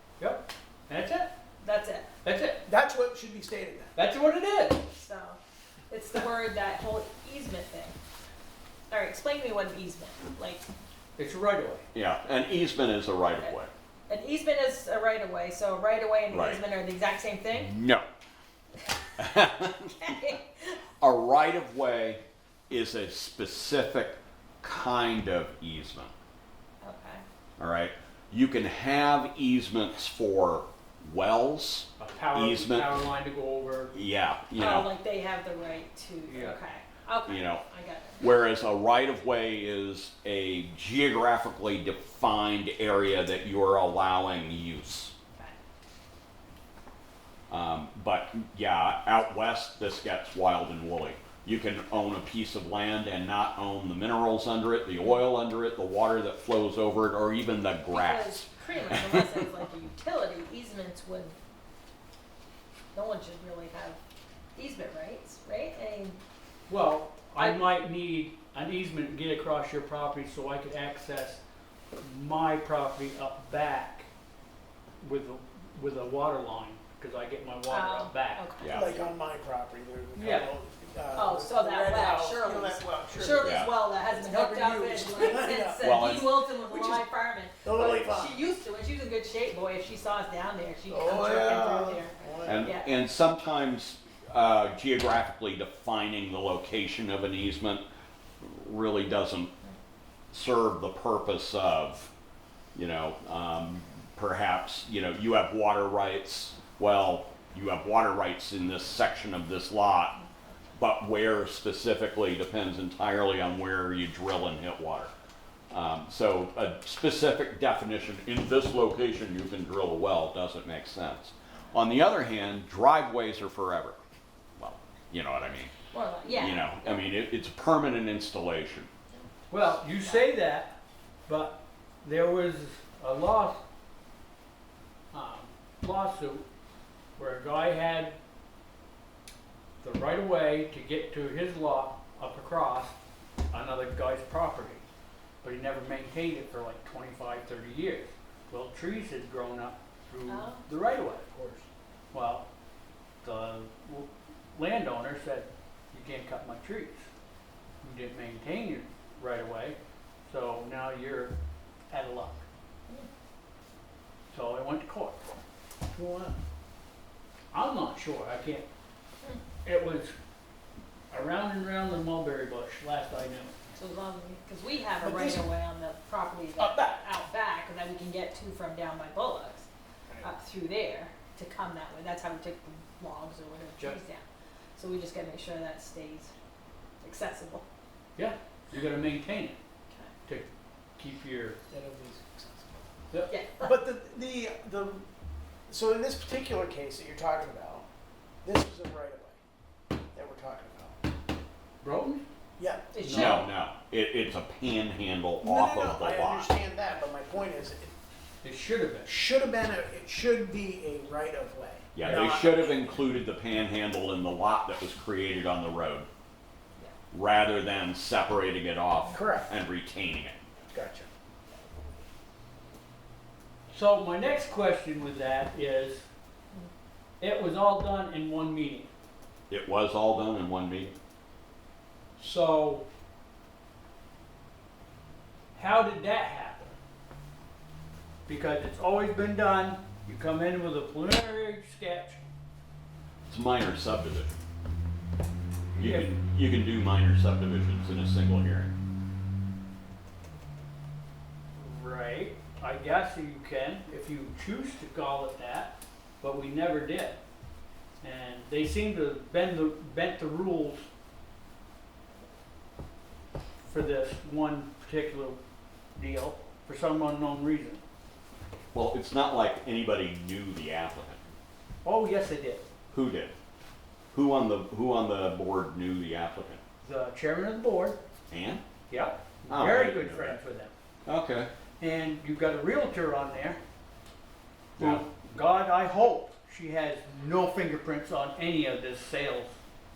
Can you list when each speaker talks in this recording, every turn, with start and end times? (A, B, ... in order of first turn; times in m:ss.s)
0:00.2-0:01.3 A
0:01.6-0:02.2 B
0:02.2-0:02.6 A
0:02.6-0:03.9 C
0:03.9-0:04.8 A
0:04.9-0:08.0 B
0:08.9-0:10.6 B
0:11.2-0:11.8 A
0:11.9-0:13.7 D
0:14.1-0:17.7 B
0:16.3-0:16.6 D
0:17.6-0:18.0 D
0:18.9-0:19.2 B
0:19.2-0:20.2 D
0:20.0-0:20.8 B
0:21.0-0:26.1 D
0:26.8-0:27.2 B
0:27.6-0:32.9 D
0:32.0-0:33.9 A
0:33.9-0:34.9 D
0:34.6-0:38.4 B
0:36.2-0:36.6 A
0:37.3-0:37.6 D
0:38.2-0:45.1 D
0:47.5-0:59.5 D
0:57.9-1:01.4 B
1:02.9-1:04.0 B
1:04.5-1:06.2 B
1:06.7-1:11.4 A
1:07.4-1:07.6 B
1:12.0-1:14.1 A
1:15.0-1:19.0 A
1:17.7-1:18.9 B
1:18.6-1:18.9 D
1:18.7-1:26.1 C
1:20.1-1:20.5 A
1:21.1-1:32.9 B
1:23.4-1:23.7 D
1:25.8-1:26.4 D
1:26.6-1:27.0 C
1:27.6-1:28.4 C
1:30.9-1:32.7 C
1:31.2-1:31.9 D
1:32.4-1:37.8 D
1:38.4-1:39.5 D
1:40.3-1:42.1 D
1:42.7-1:50.1 D
1:50.1-1:50.7 B
1:50.8-1:55.1 D
1:55.7-2:04.0 D
2:04.6-2:05.7 D
2:05.9-2:07.1 B
2:06.3-2:08.9 D
2:09.1-2:10.3 B
2:09.5-2:10.7 A
2:11.2-2:13.6 A
2:15.1-2:16.4 A
2:17.2-2:18.2 A
2:19.8-2:22.9 A
2:23.5-2:24.8 A
2:25.4-2:32.4 A
2:30.2-2:30.6 B
2:33.2-2:37.1 A
2:37.8-2:41.3 A
2:41.9-2:42.4 A
2:44.3-2:45.2 A
2:45.9-2:46.4 C
2:47.5-2:48.6 A
2:49.6-2:50.1 A
2:51.1-2:53.6 A
2:53.7-2:59.7 B
2:55.0-2:55.4 C
2:56.6-2:57.0 C
3:00.2-3:06.3 B
3:07.0-3:07.6 B
3:08.2-3:09.6 A
3:10.2-3:11.6 A
3:11.7-3:12.9 C
3:13.3-3:13.8 B
3:13.6-3:15.0 C
3:15.7-3:17.8 C
3:18.4-3:19.4 C
3:20.1-3:21.0 C
3:21.8-3:22.2 A
3:22.6-3:22.9 C
3:22.9-3:23.5 B
3:23.0-3:23.4 A
3:23.1-3:26.5 D
3:25.4-3:27.9 C
3:28.4-3:29.2 A
3:29.0-3:32.9 C
3:31.9-3:36.1 D
3:37.1-3:40.3 D
3:39.1-3:39.5 C
3:40.7-3:41.1 C
3:43.7-3:46.0 A
3:47.2-3:48.9 A
3:49.5-3:50.9 D
3:52.2-3:52.8 A
3:55.5-3:56.8 A
3:58.3-4:02.2 A
4:03.3-4:04.4 D
4:05.7-4:06.1 A
4:05.8-4:08.7 D
4:11.5-4:17.2 A
4:18.0-4:20.8 A
4:23.7-4:25.4 A
4:26.0-4:27.8 A
4:28.7-4:31.3 D
4:31.8-4:32.6 A
4:32.9-4:33.3 D
4:34.1-4:36.6 D
4:36.8-4:38.0 A
4:38.3-4:38.6 D
4:38.9-4:40.7 A
4:39.5-4:40.4 D
4:41.0-4:41.5 D
4:41.8-4:43.6 A
4:44.8-4:45.0 D
4:44.8-4:49.6 A